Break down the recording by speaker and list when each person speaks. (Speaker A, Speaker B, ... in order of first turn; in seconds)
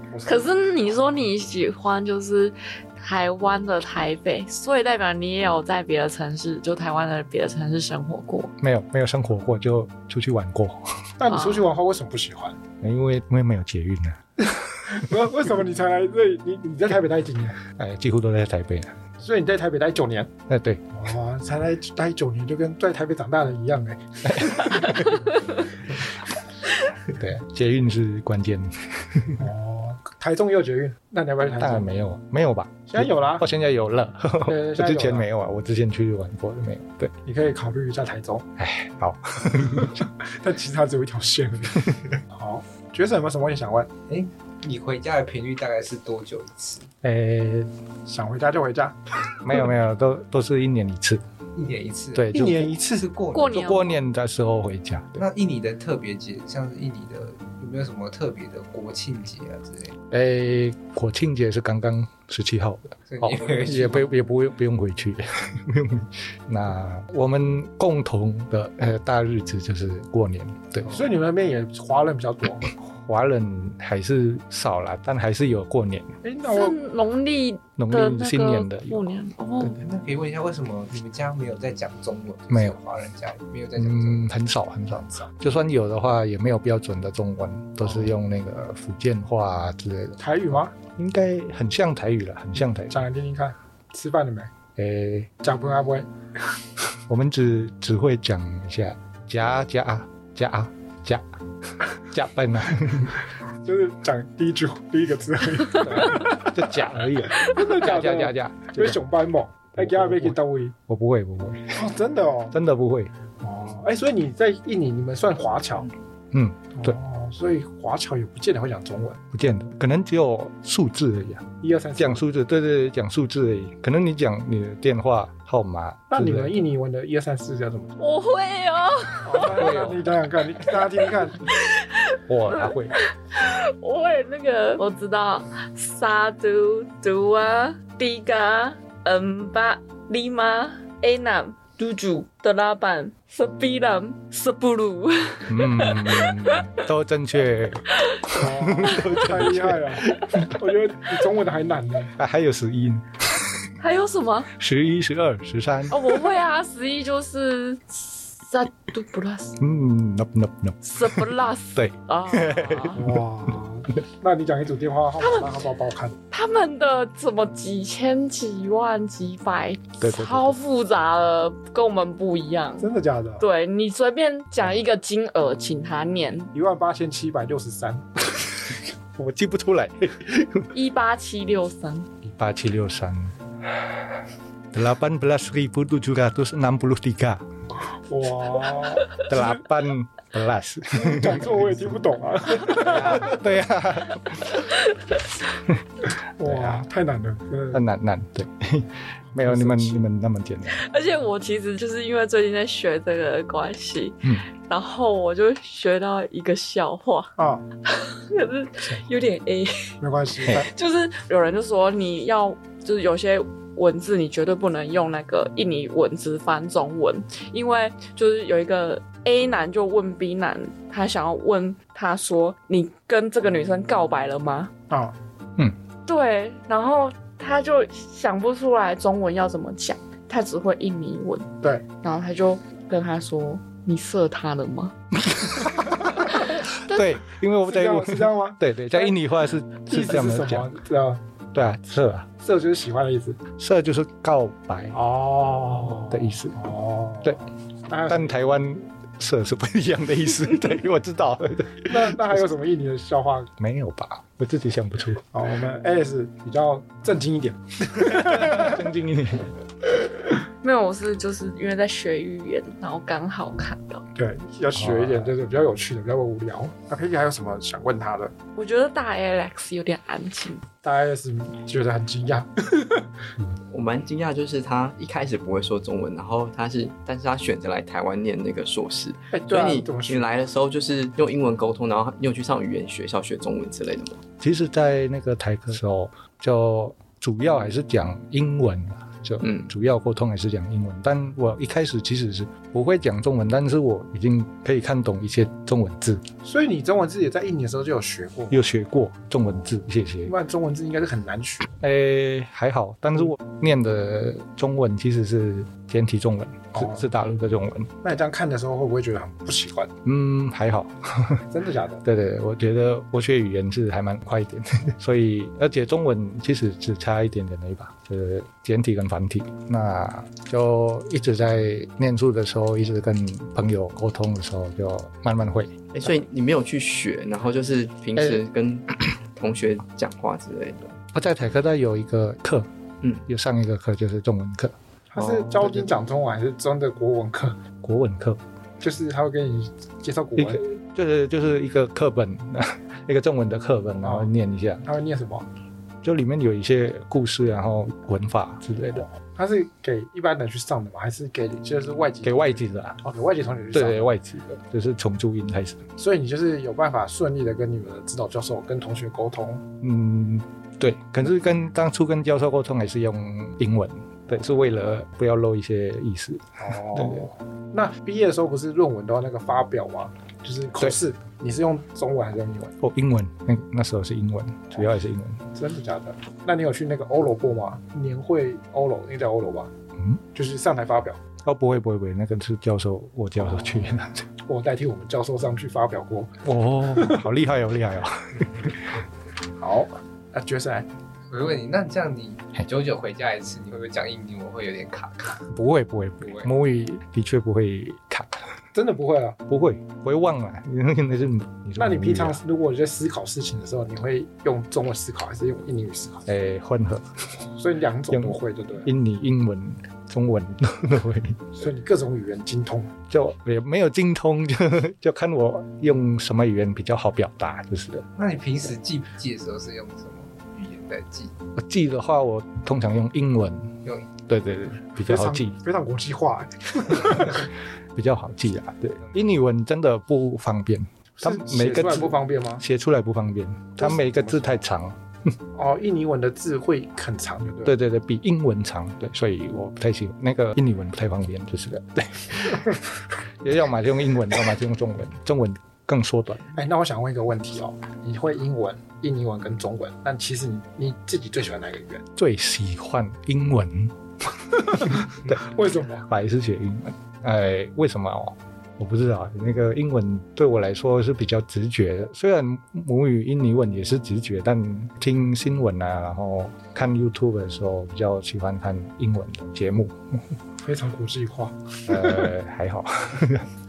Speaker A: 0.1-0.5, 11.2-12.6, 14.9-17.6, 19.2-20.3, 20.9-25.3, 29.4-31.9, 32.9-33.5, 34.5-35.3, 37.2-38.5, 39.8-43.9, 48.1-49.0, 52.3-53.1, 70.9-72.7, 76.2-76.8, 84.9-85.3, 87.8-88.1, 90.2-90.7, 92.9-94.5, 95.4-96.1, 103.6-106.5, 107.4-110.8, 111.8-112.5, 113.4-115.9, 116.8-119.2, 121.6-122.2, 126.1-127.9, 129.2-131.4, 148.3-152.1, 162.9-166.2, 172.8-173.4, 176.5-178.1, 187.9-189.5, 190.9-193.3, 196.4-197.8, 199.4-200.0, 207.4-207.6, 210.0-210.7, 224.9-225.2, 237.6-239.2, 239.9-241.2, 242.4-243.4, 244.9-248.4, 251.9-253.5, 255.3-258.8, 264.2-268.3, 270.8-273.1, 279.3-280.3, 296.4-298.6, 300.3-301.8, 306.8-307.0, 308.0-309.9, 311.5-312.0, 335.1-337.6, 338.8-340.6, 344.0-344.3, 344.9-345.5, 348.9-354.1, 356.0-359.6, 366.6-372.7, 375.6-379.7, 380.4-381.2, 383.4-383.9, 384.4-386.4, 386.9-387.2, 389.6-390.9, 398.7-399.4, 401.8-406.3, 407.6-408.9, 411.6-412.9, 425.0-427.5, 431.2-432.6, 433.8-434.6, 435.6-437.7, 446.5-452.0, 454.9-456.1, 470.6-472.3
Speaker B: 0.2-8.5, 11.3-11.7, 53.3-54.0, 76.4-79.8, 128.0-129.8, 131.5-146.7, 148.0-148.3, 148.8-149.2, 153.8-154.5, 155.9-159.6, 160.8-163.0, 165.2-165.6, 166.3-172.9, 173.4-176.5, 180.7-182.1, 200.7-207.3, 207.9-224.7, 226.1-231.5, 232.0-234.9, 260.6-264.0, 268.6-270.6
Speaker C: 8.6-10.9, 12.8-15.1, 17.8-19.0, 20.5-20.8, 24.2-25.2, 27.1-29.5, 31.6-37.1, 38.6-40.0, 47.0-47.7, 49.4-51.2, 52.1-52.7, 53.4-55.2, 60.1-71.0, 72.8-76.2, 77.8-79.1, 82.5-82.8, 83.8-90.2, 91.0-93.0, 94.8-95.3, 97.1-101.2, 102.0-103.2, 105.8-109.0, 109.8-111.9, 112.5-113.1, 116.3-117.0, 119.3-126.7, 129.4-130.0, 132.3-133.0, 145.5-150.5, 152.2-153.7, 154.6-156.1, 159.6-163.2, 170.0-170.6, 179.2-180.7, 182.2-184.1, 184.7-187.4, 189.2-192.0, 192.6-194.6, 196.4-196.8, 197.7-200.8, 235.2-235.9, 236.5-240.7, 241.5-242.3, 243.6-245.0, 245.9-246.6, 248.1-252.4, 253.6-255.3, 258.0-259.5, 264.7-265.4, 284.4-296.3, 298.5-300.3, 301.8-307.9, 310.1-311.5, 312.0-326.1, 331.1-332.7, 333.3-335.9, 337.8-338.4, 340.4-344.9, 346.0-349.1, 352.2-353.0, 353.7-355.9, 359.8-367.3, 372.8-375.4, 381.4-384.3, 386.4-388.9, 395.5-398.5, 399.5-402.4, 406.3-407.2, 408.1-411.6, 413.1-418.1, 421.6-423.7, 424.3-425.6, 428.0-435.3, 437.6-442.8, 443.4-446.6, 452.2-453.9, 454.6-455.4, 456.1-470.0, 471.9-473.5
Speaker D: 44.1-46.9, 51.6-53.8, 55.2-60.0, 63.1-64.1, 79.7-84.3, 391.3-395.5, 396.2-396.5, 418.2-421.4
Speaker E: 273.7-284.2, 289.4-289.7, 325.9-331.0